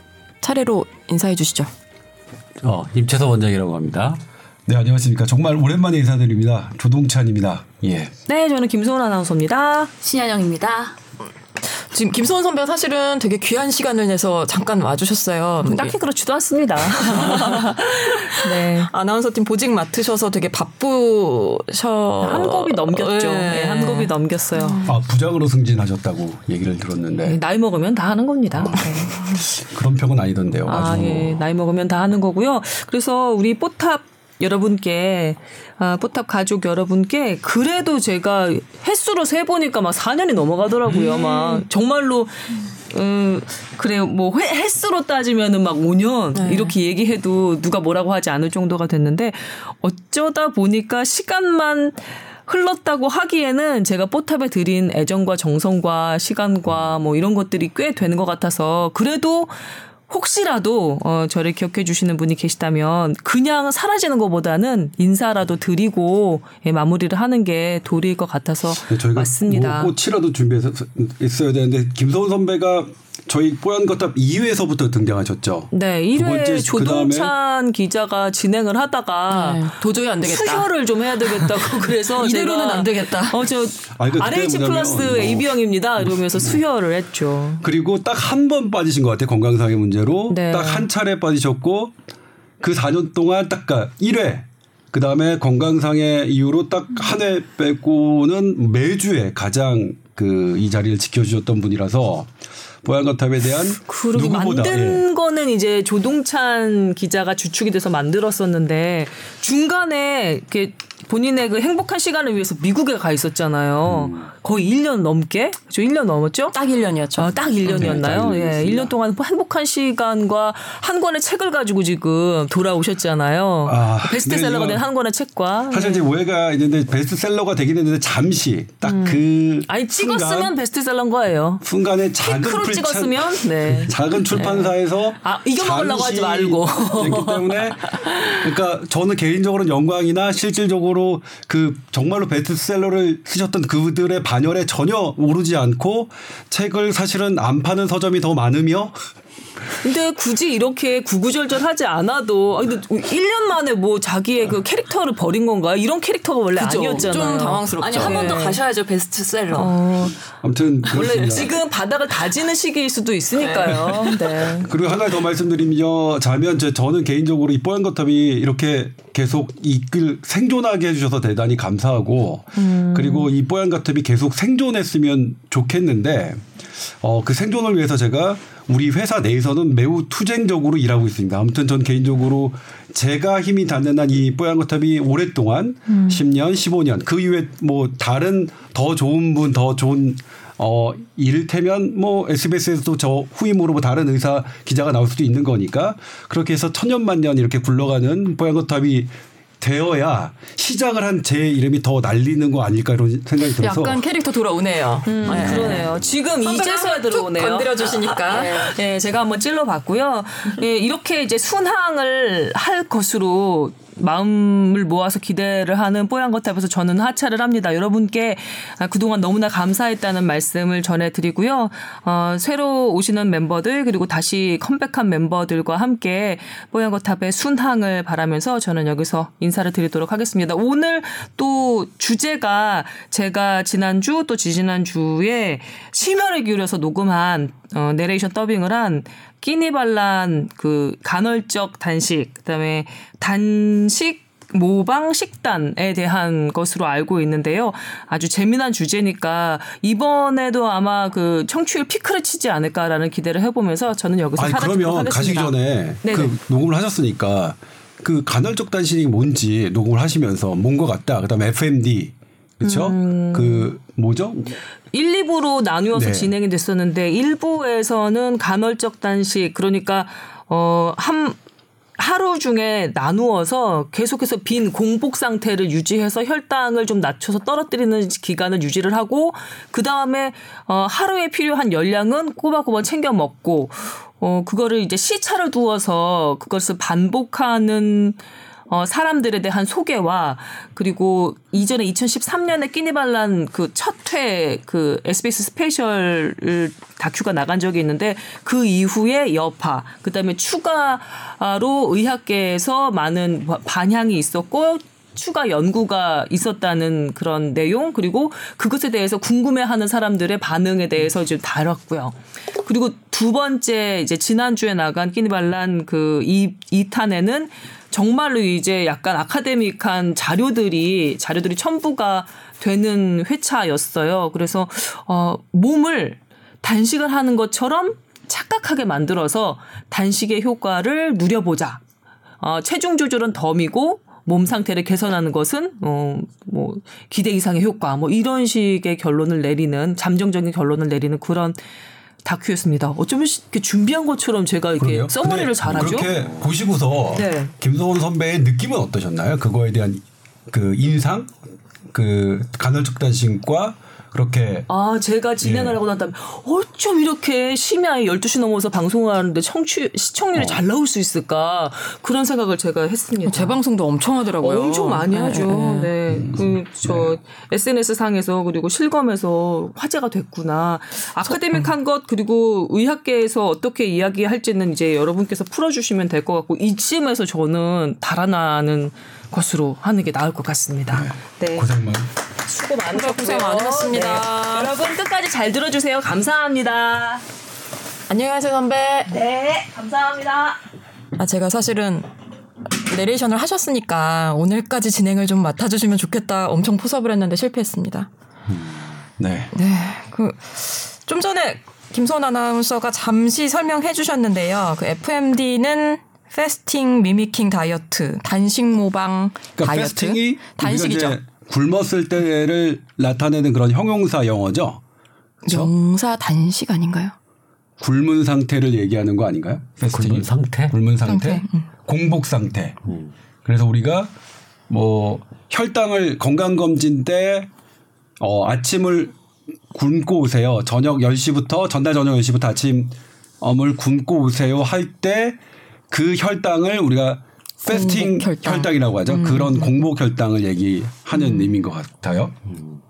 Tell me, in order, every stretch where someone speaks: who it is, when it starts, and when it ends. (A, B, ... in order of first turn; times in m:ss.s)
0:00.4-0:01.7 A
0:02.6-0:04.2 B
0:04.7-0:08.1 C
0:08.3-0:09.9 D
0:10.0-0:11.0 E
0:11.7-0:16.0 A
0:15.6-0:18.9 D
0:17.0-0:17.7 A
0:18.3-0:24.9 A
0:22.2-0:24.9 D
0:24.8-0:27.4 C
0:27.2-0:29.4 D
0:28.6-0:31.4 C
0:30.7-0:59.5 D
0:41.3-0:41.6 A
0:46.3-0:46.7 A
1:00.1-1:09.9 D
1:08.9-1:17.3 C
1:15.7-1:27.6 D
1:19.3-1:20.7 A
1:21.3-1:23.4 A
1:24.0-1:25.5 C
1:26.2-1:26.5 C
1:27.6-1:31.9 C
1:30.3-1:30.9 D
1:32.6-1:42.3 C
1:42.8-1:45.0 C
1:43.9-1:56.6 D
1:56.5-1:57.9 A
1:57.2-2:06.1 D
1:57.7-1:58.9 C
2:03.7-2:04.8 C
2:05.7-2:10.5 C
2:08.8-2:11.6 D
2:11.6-2:29.0 C
2:12.2-2:18.4 D
2:29.8-2:38.6 D
2:36.6-2:38.6 A
2:37.8-2:40.1 E
2:39.5-2:40.2 D
2:40.4-2:41.6 C
2:40.8-2:44.7 D
2:43.8-2:44.2 A
2:43.9-2:56.5 C
2:52.6-2:53.3 D
2:57.0-3:24.0 C
3:23.6-3:28.7 A
3:25.0-4:16.3 D
4:14.4-4:24.5 C
4:22.6-4:23.7 D
4:24.9-4:31.4 D
4:25.9-4:26.4 C
4:32.0-5:31.8 D
5:32.4-5:41.6 D
5:42.2-5:46.1 D
5:44.8-5:51.3 C
5:45.9-5:46.2 B
5:47.2-5:47.5 D
5:51.9-5:54.7 C
5:54.7-6:03.6 D
5:55.4-5:55.8 C
6:00.4-6:00.6 C
6:03.3-6:05.9 A
6:04.4-6:21.7 D
6:06.3-6:07.1 C
6:20.9-6:22.1 C
6:22.5-6:27.2 D
6:22.9-6:24.7 A
6:28.1-6:29.1 A
6:29.1-6:30.6 D
6:31.2-6:32.1 A
6:32.8-6:38.1 A
6:39.2-6:39.5 C
6:39.5-6:51.2 A
6:49.6-6:54.8 C
6:55.5-6:55.7 C
6:55.5-6:57.2 A
6:57.8-7:02.8 C
6:59.9-7:00.8 B
7:01.1-7:01.7 A
7:03.4-7:04.1 C
7:04.7-7:07.5 C
7:08.2-7:09.2 C
7:09.7-7:15.4 C
7:15.9-7:22.4 C
7:17.7-7:19.7 A
7:21.2-7:21.5 A